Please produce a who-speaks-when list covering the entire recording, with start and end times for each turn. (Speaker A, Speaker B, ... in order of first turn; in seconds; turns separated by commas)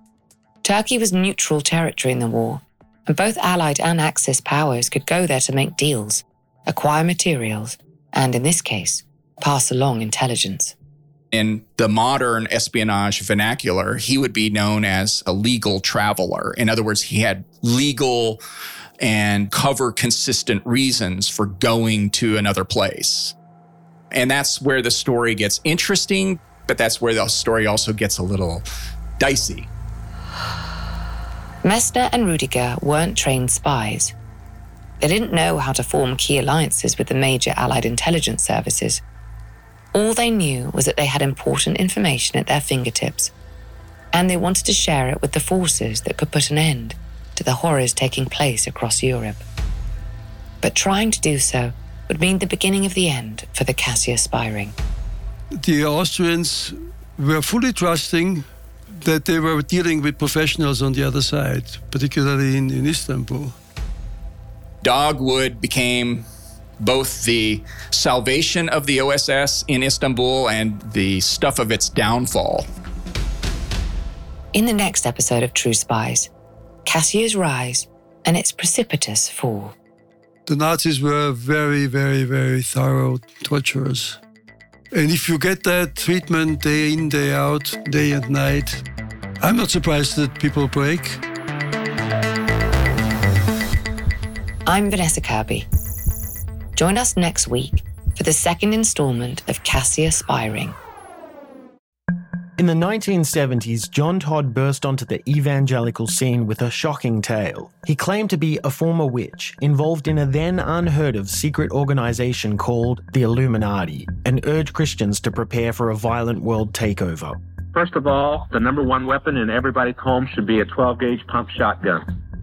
Speaker A: 0.6-10.7, Speaker B: 11.3-18.4, Speaker B: 19.0-23.3, Speaker B: 24.1-28.6, Speaker B: 29.2-29.7, Speaker A: 31.6-34.1, Speaker A: 35.0-39.0, Speaker A: 39.9-43.3, Speaker A: 44.1-49.4, Speaker A: 50.6-54.7, Speaker C: 55.5-58.4, Speaker C: 59.0-63.5, Speaker B: 64.8-66.2, Speaker B: 66.8-72.7, Speaker A: 74.5-76.3, Speaker A: 76.8-79.7, Speaker C: 80.5-84.2, Speaker C: 84.9-88.8, Speaker C: 89.4-91.2, Speaker A: 94.7-95.7, Speaker A: 96.8-100.8, Speaker D: 102.6-117.4, Speaker E: 117.7-122.1